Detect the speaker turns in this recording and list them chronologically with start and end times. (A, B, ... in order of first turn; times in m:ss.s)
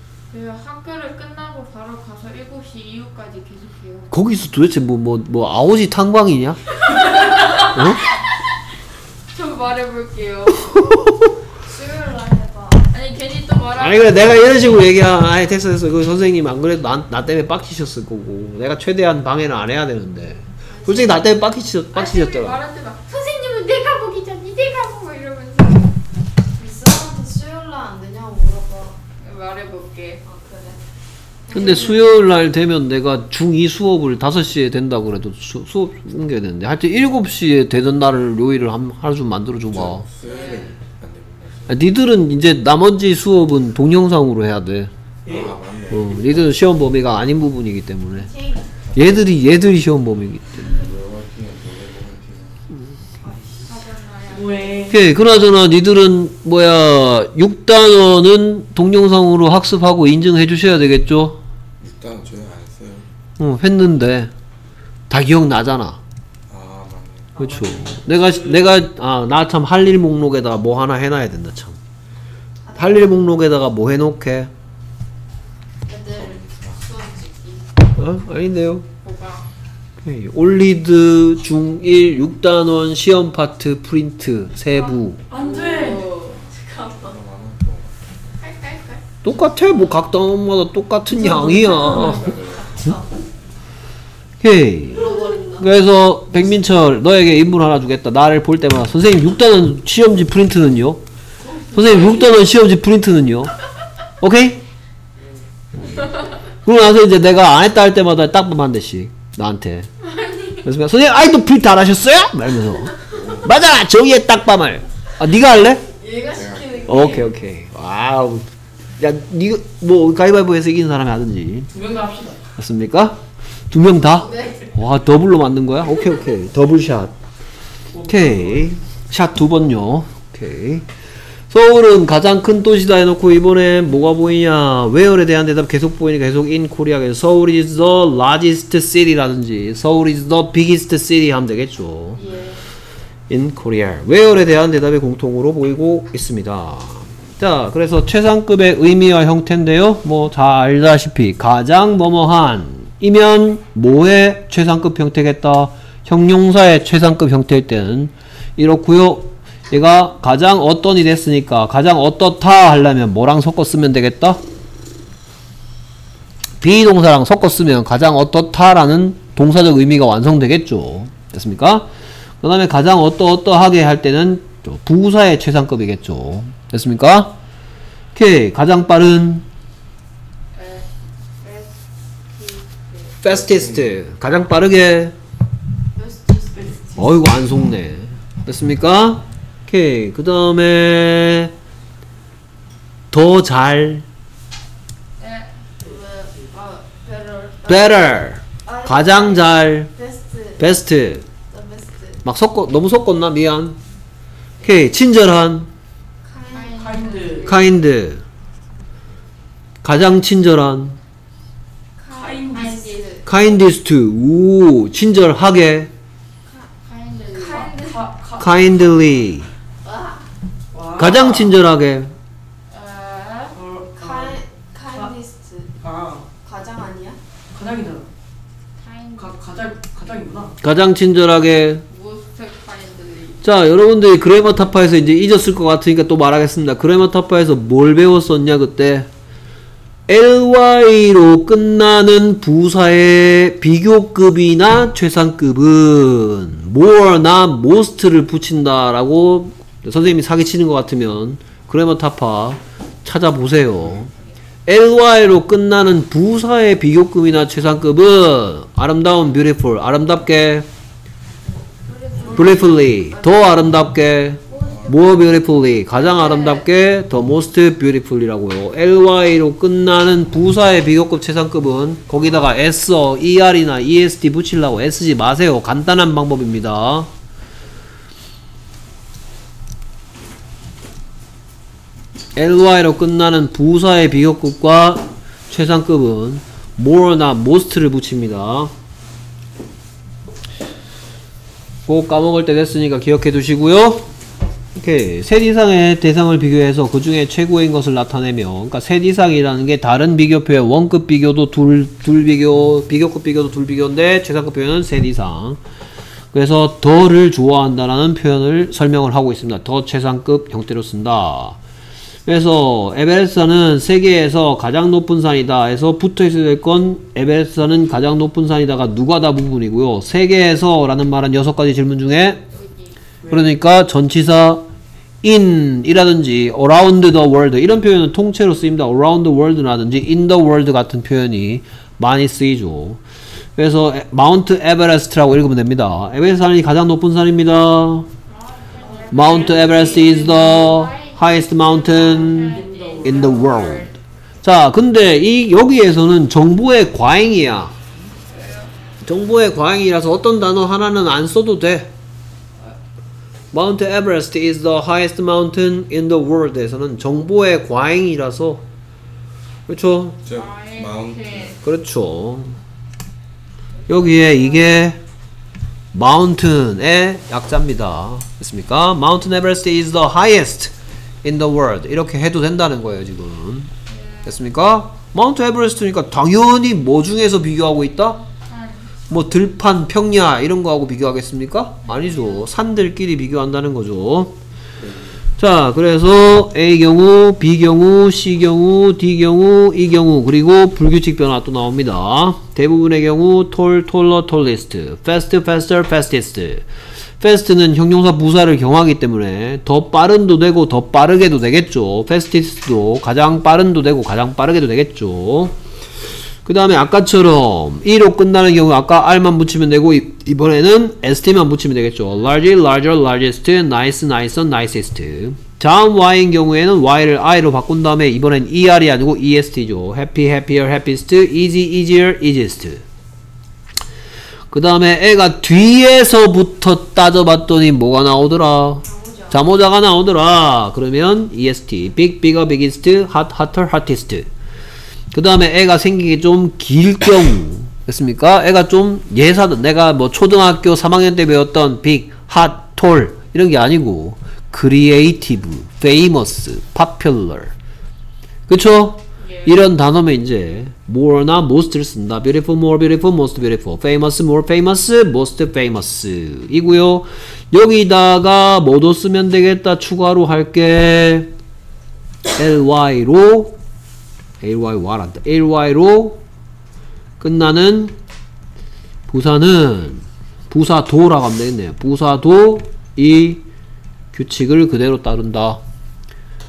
0:00.3-0:04.1 A
0:04.1-0:06.6 B
0:07.0-0:07.7 A
0:07.7-0:08.0 B
0:09.3-0:10.8 A
0:10.7-0:11.3 B
0:11.6-0:12.9 C
0:12.9-0:14.9 A
0:13.8-0:22.6 B
0:20.7-0:21.4 C
0:21.9-0:25.9 A
0:26.5-0:29.0 C
0:29.2-0:30.2 A
0:30.2-0:30.8 C
0:31.5-0:32.0 C
0:31.5-0:40.0 B
0:31.5-0:32.0 A
0:39.7-0:41.9 D
0:40.2-0:40.7 A
0:40.3-0:40.6 C
0:41.7-0:44.9 B
0:45.2-0:45.5 E
0:45.2-0:46.6 D
0:45.9-0:48.3 B
0:48.2-0:48.7 C
0:48.9-0:49.3 D
0:48.9-0:50.7 B
0:50.6-0:52.6 D
0:53.2-0:53.6 C
0:53.6-0:54.8 A
0:54.3-0:55.0 E
0:54.9-1:01.4 B
1:01.8-1:03.1 D
1:03.4-1:04.3 B
1:05.1-1:06.0 B
1:06.5-1:07.3 D
1:07.3-1:08.6 E
1:07.4-1:11.8 B
1:12.6-1:13.3 C
1:12.8-1:14.5 B
1:15.9-1:17.8 C
1:16.1-1:16.8 D
1:18.0-1:18.8 B
1:19.0-1:19.5 A
1:20.0-1:25.2 B
1:25.3-1:26.0 E
1:25.3-1:27.2 C
1:25.4-1:26.0 A
1:27.0-1:28.0 D
1:28.4-1:29.0 C
1:29.2-1:32.3 B
1:31.2-1:32.3 E
1:32.0-1:33.0 C
1:32.0-1:32.8 D
1:34.4-1:41.0 B
1:34.9-1:35.7 C
1:41.7-1:43.5 B
1:41.9-1:42.2 E
1:44.2-1:44.6 B
1:45.8-1:46.1 B
1:46.6-1:49.9 B
1:50.6-1:55.8 B
1:53.1-1:53.5 D
1:55.9-1:57.3 C
1:56.3-1:57.3 D
1:56.8-2:01.7 B
2:01.7-2:02.4 E
2:02.6-2:03.2 B
2:03.7-2:07.1 B
2:04.1-2:04.7 C
2:07.9-2:08.7 E
2:08.0-2:10.9 B
2:11.5-2:22.2 B
2:22.2-2:22.6 C
2:23.3-2:44.4 B
2:46.6-2:51.9 B
2:52.4-2:57.4 B
2:58.1-2:59.4 B
3:00.6-3:00.8 A
3:01.4-3:03.2 C
3:03.2-3:05.1 B
3:03.3-3:04.0 D
3:05.9-3:07.2 C
3:06.6-3:06.9 E
3:07.0-3:11.5 B
3:13.1-3:14.0 B
3:15.2-3:15.5 A
3:15.8-3:16.5 E
3:15.8-3:20.8 C
3:17.6-3:19.9 B
3:20.6-3:21.3 B
3:21.3-3:22.2 C
3:22.2-3:23.8 B
3:24.6-3:25.7 B
3:26.2-3:27.6 C
3:26.5-3:27.7 A
3:26.7-3:27.5 E
3:27.4-3:28.2 B
3:29.8-3:31.0 B
3:32.0-3:33.2 A
3:32.1-3:33.3 C
3:32.2-3:32.8 E
3:33.2-3:35.9 B
3:36.4-3:38.1 A
3:37.3-3:38.0 C
3:37.5-3:38.7 E
3:38.4-3:39.5 B
3:39.8-3:40.3 C
3:40.7-3:41.6 E
3:41.0-3:42.1 B
3:42.7-3:43.5 A
3:43.5-3:45.1 E
3:43.9-3:45.7 C
3:45.8-3:46.3 E
3:46.4-3:47.2 C
3:47.5-3:48.1 E
3:48.8-3:49.4 A
3:49.2-3:50.6 E
3:50.6-3:51.8 B
3:51.9-3:53.4 A
3:53.4-3:59.1 B
4:00.1-4:14.1 B
4:13.8-4:14.1 D
4:14.6-4:20.7 B
4:21.5-4:23.8 C
4:21.9-4:22.8 A
4:22.3-4:37.1 B
4:24.4-4:26.6 C
4:24.6-4:25.0 D
4:26.0-4:26.6 A
4:42.4-4:48.7 B
4:51.8-4:54.1 B
4:54.8-5:05.6 B
5:06.3-5:11.6 B
5:12.2-5:22.4 B
5:22.5-5:23.0 A
5:23.2-5:23.5 E
5:23.3-5:24.7 B
5:25.2-5:33.0 B
5:33.6-5:38.1 B
5:38.3-5:43.9 A
5:38.8-5:40.4 E
5:39.1-5:43.9 B
5:41.9-5:43.9 E
5:44.4-5:47.7 B
5:48.3-5:48.7 A
5:49.0-5:51.9 B
5:53.5-5:58.6 B
5:59.7-6:00.2 B
6:00.2-6:01.6 D
6:00.3-6:01.6 A
6:01.6-6:02.6 B
6:03.9-6:05.0 B
6:05.9-6:13.7 B
6:13.9-6:14.3 A
6:14.2-6:18.2 B
6:18.5-6:18.9 A
6:19.1-6:24.4 B
6:21.9-6:22.4 A
6:24.8-6:25.2 D
6:25.4-6:36.6 B
6:37.2-6:45.6 B
6:46.4-7:02.8 B
7:04.5-7:14.3 B
7:08.8-7:09.5 C
7:15.1-7:27.5 B
7:28.5-7:41.3 B
7:29.2-7:29.5 A
7:42.4-7:43.6 B
7:44.4-7:46.2 B
7:47.2-7:48.0 B
7:49.1-7:53.4 B
7:54.1-7:55.6 B